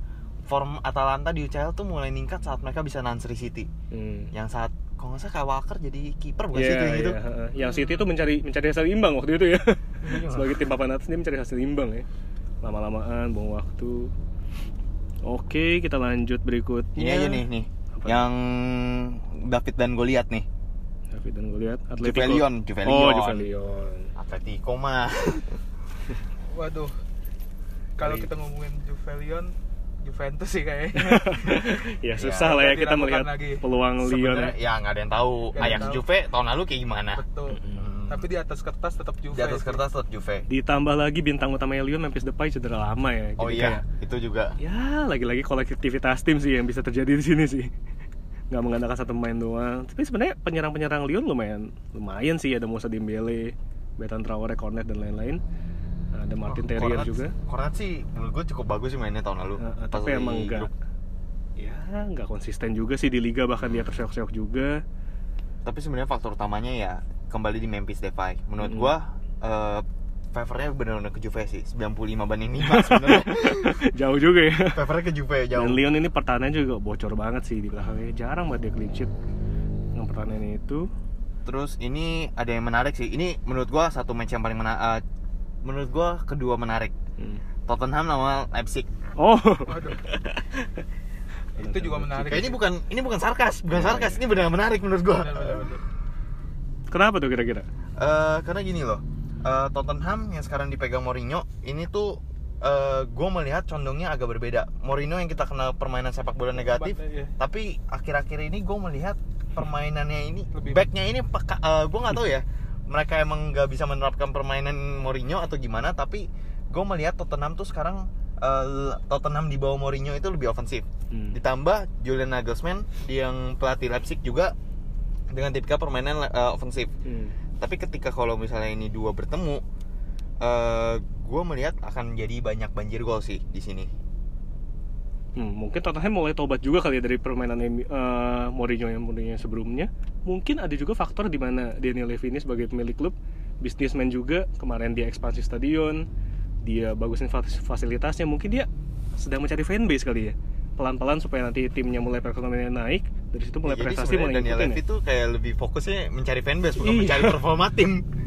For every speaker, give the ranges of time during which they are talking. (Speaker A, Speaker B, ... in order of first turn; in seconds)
Speaker A: 0.5-3.7, 4.3-7.2, 10.0-10.6, 16.9-20.4, 22.0-23.5, 24.1-25.6, 32.2-32.5, 34.0-38.2, 39.3-40.4, 43.4-44.5, 56.5-60.7, 63.6-63.9, 65.6-73.8, 74.7-75.8, 77.8-78.0, 81.5-85.0, 85.6-86.9, 87.7-88.9, 92.2-95.8, 98.0-124.5, 125.3-126.9, 127.6-129.6, 130.4-133.9, 153.6-158.0
Speaker B: 3.9-4.3, 6.5-12.1, 12.6-14.1, 15.2-18.2, 21.1-24.1, 28.0-28.3, 30.9-34.5, 35.6-35.9, 40.5-43.8, 44.6-47.7, 48.5-55.4, 56.1-57.3, 59.6-60.7, 61.6-64.8, 68.6-68.9, 72.6-74.8, 75.5-79.1, 79.9-80.9, 89.2-90.3, 91.6-92.5, 93.7-94.2, 96.9-97.7, 121.1-121.4, 127.0-127.3, 135.3-146.1, 146.6-154.8, 156.8-157.4
Speaker C: 7.6-8.0, 26.5-26.9, 28.0-31.8, 32.4-33.6, 35.5-36.0, 37.2-39.8, 89.7-90.0, 91.6-92.6, 95.2-95.8, 106.6-107.3, 110.5-110.9